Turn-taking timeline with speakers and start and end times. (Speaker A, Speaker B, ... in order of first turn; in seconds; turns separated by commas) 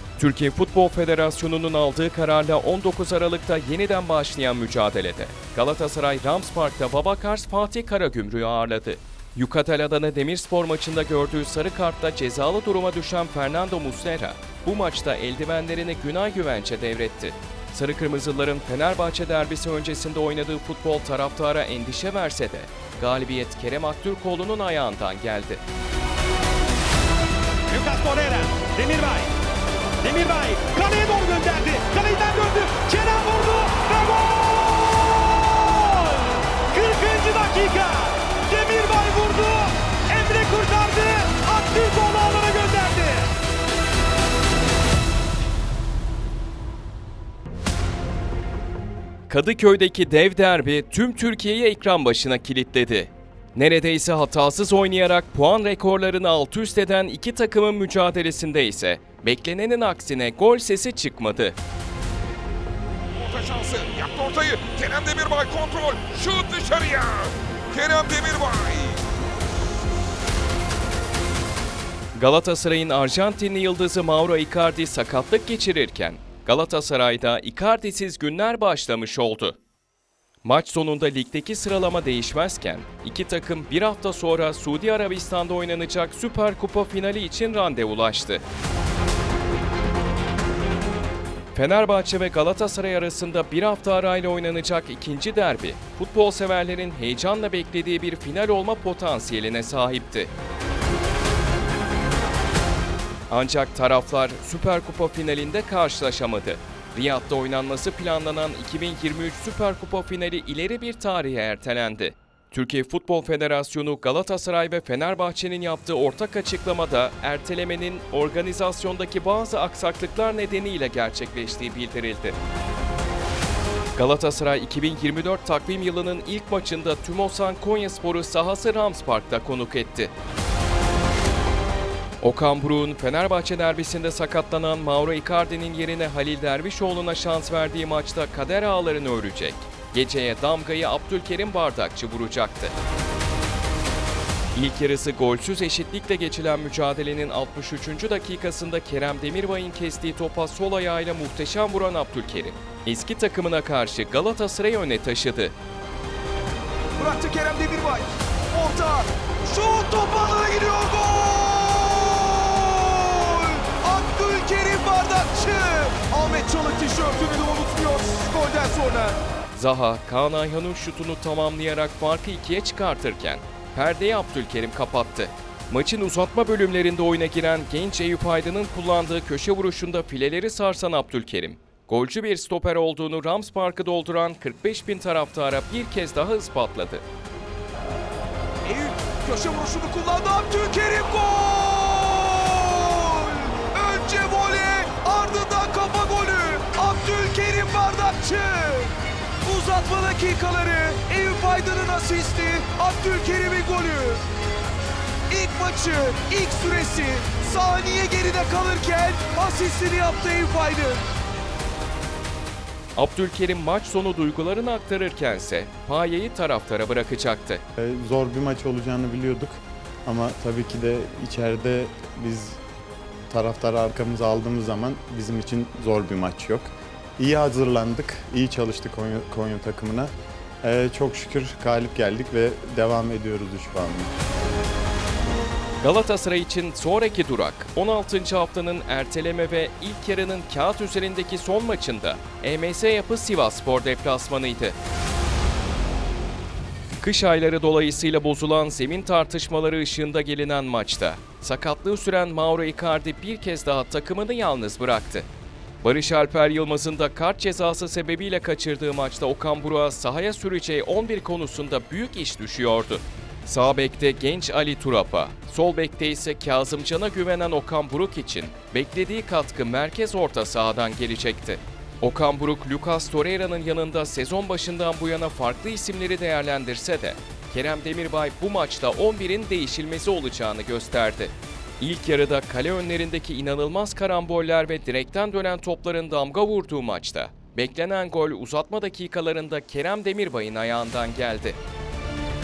Speaker A: 0.2-25.6, Speaker B: 27.7-29.3, Speaker B: 30.0-43.3, Speaker A: 49.3-61.6, Speaker C: 63.1-69.0, Speaker A: 72.1-79.6, Speaker A: 80.4-88.4, Speaker A: 91.5-100.3, Speaker A: 103.3-122.3, Speaker A: 124.0-130.1, Speaker A: 132.2-142.7, Speaker A: 144.5-155.5, Speaker D: 157.0-169.2, Speaker A: 169.5-187.0, Speaker D: 188.6-204.2, Speaker D: 205.3-211.1, Speaker A: 212.9-217.6, Speaker E: 217.8-222.6, Speaker E: 223.3-234.1, Speaker A: 235.8-244.8, Speaker A: 247.0-255.3, Speaker A: 255.8-291.6